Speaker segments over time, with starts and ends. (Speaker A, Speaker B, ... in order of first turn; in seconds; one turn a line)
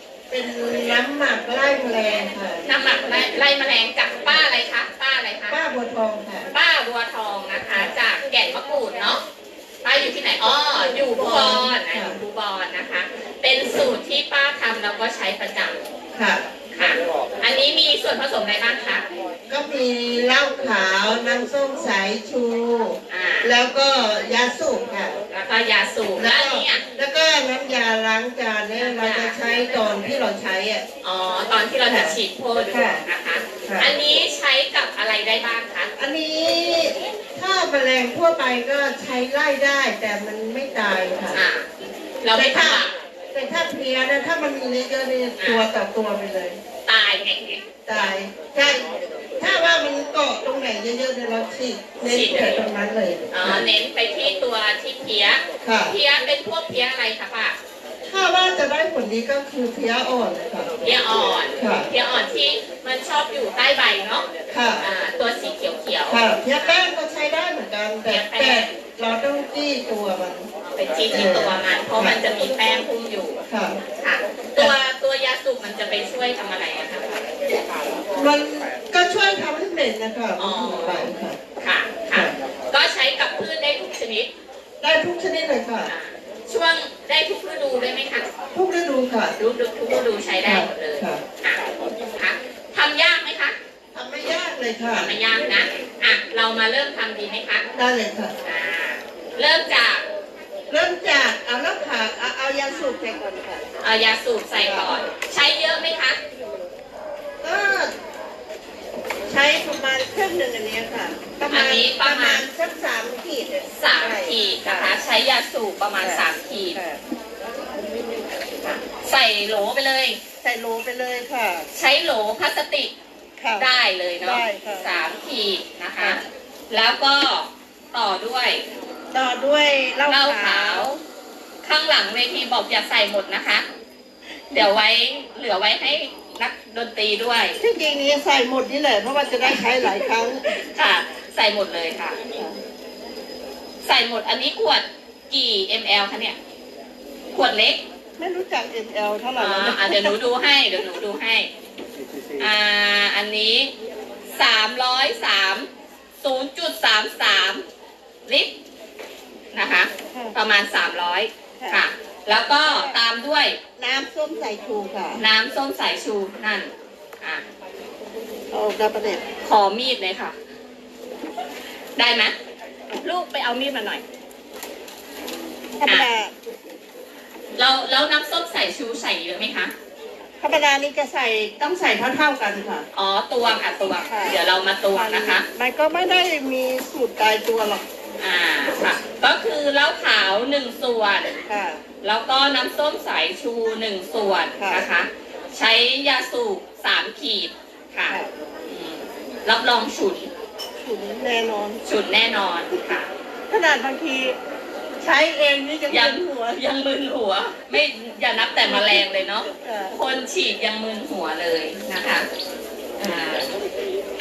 Speaker A: 0.3-2.6
Speaker B: 2.6-5.6
Speaker A: 5.5-6.5
Speaker B: 6.5-9.2
Speaker B: 9.8-15.8
Speaker A: 10.8-12.2
Speaker A: 16.1-16.4
Speaker B: 16.7-19.0
Speaker A: 19.5-25.2
Speaker B: 23.1-23.5
Speaker B: 25.3-26.8
Speaker A: 26.1-30.8
Speaker B: 28.7-29.4
Speaker B: 31.0-35.9
Speaker A: 31.9-32.2
Speaker A: 32.7-33.0
Speaker A: 33.6-33.9
Speaker A: 36.0-41.4
Speaker B: 41.3-41.7
Speaker B: 42.2-42.9
Speaker A: 42.3-46.6
Speaker B: 45.4-45.6
Speaker B: 46.9-47.6
Speaker A: 47.9-53.7
Speaker B: 52.0-52.6
Speaker B: 53.3-57.6
Speaker A: 55.6-56.0
Speaker A: 58.1-60.9
Speaker B: 60.8-64.2
Speaker A: 61.5-61.9
Speaker A: 64.5-64.9
Speaker B: 64.8-66.8
Speaker A: 66.1-70.5
Speaker B: 68.1-68.7
Speaker B: 70.7-73.4
Speaker A: 71.1-72.2
Speaker A: 73.5-73.8
Speaker B: 74.0-77.2
Speaker A: 78.2-81.4
Speaker B: 80.4-84.3
Speaker A: 84.8-85.9
Speaker B: 85.8-88.2
Speaker A: 88.5-89.3
Speaker B: 89.4-91.6
Speaker A: 90.4-91.2
Speaker B: 92.2-93.5
Speaker A: 93.9-95.2
Speaker B: 95.0-97.7
Speaker A: 97.7-98.3
Speaker B: 98.4-100.0
Speaker A: 100.7-103.7
Speaker B: 103.8-106.2
Speaker A: 104.6-104.9
Speaker A: 107.4-107.9
Speaker A: 109.3-114.9
Speaker B: 111.5-112.4
Speaker B: 113.7-116.8
Speaker A: 116.0-117.0
Speaker B: 118.6-120.2
Speaker A: 120.4-121.7
Speaker B: 121.7-122.9
Speaker A: 123.4-123.7
Speaker B: 123.6-128.6
Speaker A: 124.2-124.9
Speaker A: 129.1-130.9
Speaker B: 130.1-131.0
Speaker B: 131.6-133.6
Speaker B: 134.5-137.6
Speaker A: 137.6-140.4
Speaker B: 139.4-142.2
Speaker A: 142.3-142.6
Speaker B: 143.8-146.4
Speaker B: 147.3-147.8
Speaker A: 148.2-150.2
Speaker B: 149.4-151.5
Speaker B: 152.4-153.7
Speaker B: 154.3-155.7
Speaker B: 156.2-157.6
Speaker B: 158.2-158.5
Speaker B: 159.5-163.6
Speaker A: 161.6-161.8
Speaker A: 162.6-163.0
Speaker A: 163.8-165.2
Speaker B: 165.2-166.7
Speaker A: 168.5-169.2
Speaker B: 169.4-170.3
Speaker B: 171.9-172.3
Speaker B: 173.0-174.0
Speaker A: 175.8-176.3
Speaker B: 177.6-179.7
Speaker A: 180.4-182.9
Speaker B: 182.9-185.4
Speaker A: 184.1-184.4
Speaker A: 184.9-187.8
Speaker B: 188.2-191.3
Speaker A: 191.3-191.8
Speaker B: 192.0-200.3
Speaker A: 194.6-194.9
Speaker A: 200.8-201.8
Speaker B: 201.8-203.1
Speaker A: 203.5-204.3
Speaker A: 205.0-206.6
Speaker B: 205.9-212.3
Speaker A: 208.6-210.0
Speaker B: 213.0-213.5